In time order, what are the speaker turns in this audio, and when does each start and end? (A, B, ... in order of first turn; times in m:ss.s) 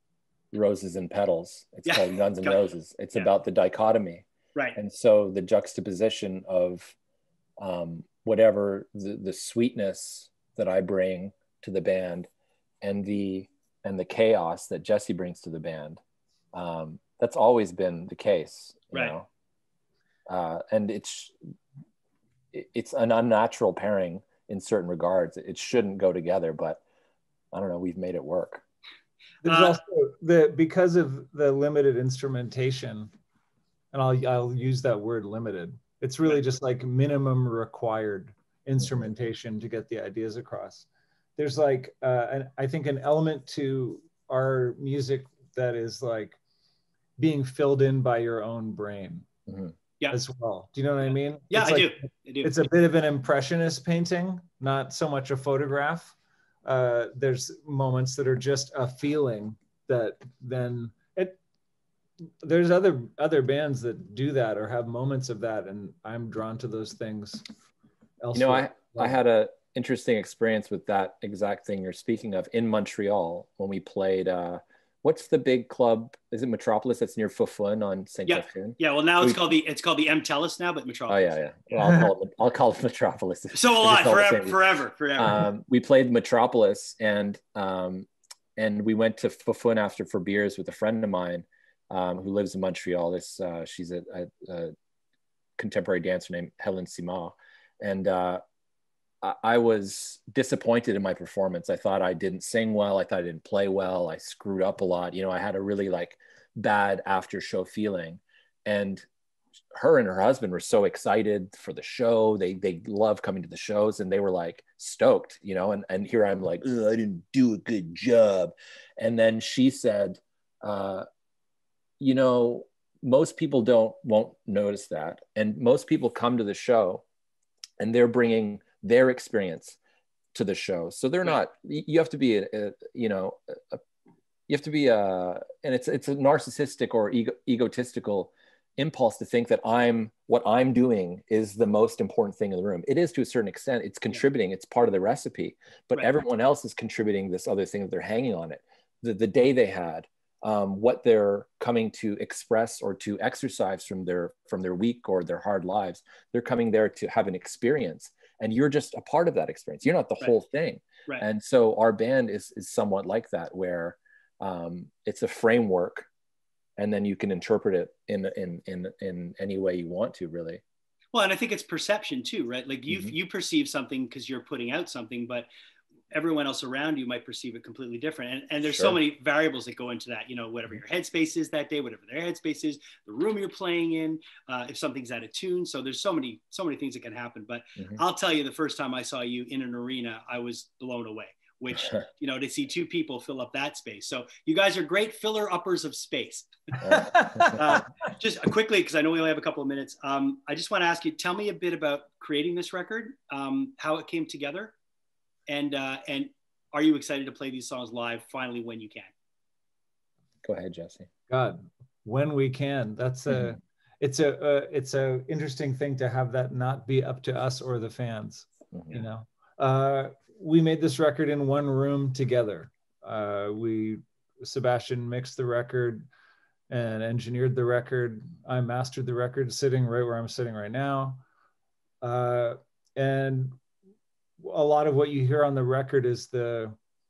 0:00.5-0:04.2 A
0:01.9-0:02.6 B
0:04.8-0:07.0 A
0:07.6-0:12.3 A
0:12.8-0:16.0 A
0:16.5-0:19.3 A
0:20.3-0:21.3 A
0:22.5-0:26.8 A
0:27.5-0:28.6 A
0:29.4-0:33.1 C
0:29.5-0:29.8 B
0:33.9-0:46.4 C
0:47.2-0:49.3 C
0:49.5-0:49.7 A
0:50.1-1:01.4 C
0:51.5-0:52.5 B
1:02.4-1:07.4 C
1:08.2-1:09.2 C
1:08.3-1:19.5 A
1:18.3-1:21.9 B
1:21.1-1:24.6 A
1:23.5-1:25.5 B
1:25.2-1:34.7 A
1:35.6-1:38.4 A
1:39.2-1:49.1 A
1:49.7-2:01.0 A
2:02.0-2:07.0 A
2:07.8-2:09.8 A
2:10.3-2:13.8 A
2:14.5-2:46.1 A
2:46.8-2:50.6 A
2:51.1-2:55.5 B
2:56.1-3:16.5 B
2:58.6-2:59.0 A
3:16.8-3:17.6 A
3:17.0-3:17.5 C
3:17.6-3:24.8 B
3:25.5-3:29.1 B
3:30.4-3:31.1 A
3:31.3-3:46.1 C
3:38.7-3:39.0 A
3:46.7-3:51.2 C
3:52.0-3:53.6 C
3:54.4-3:56.8 C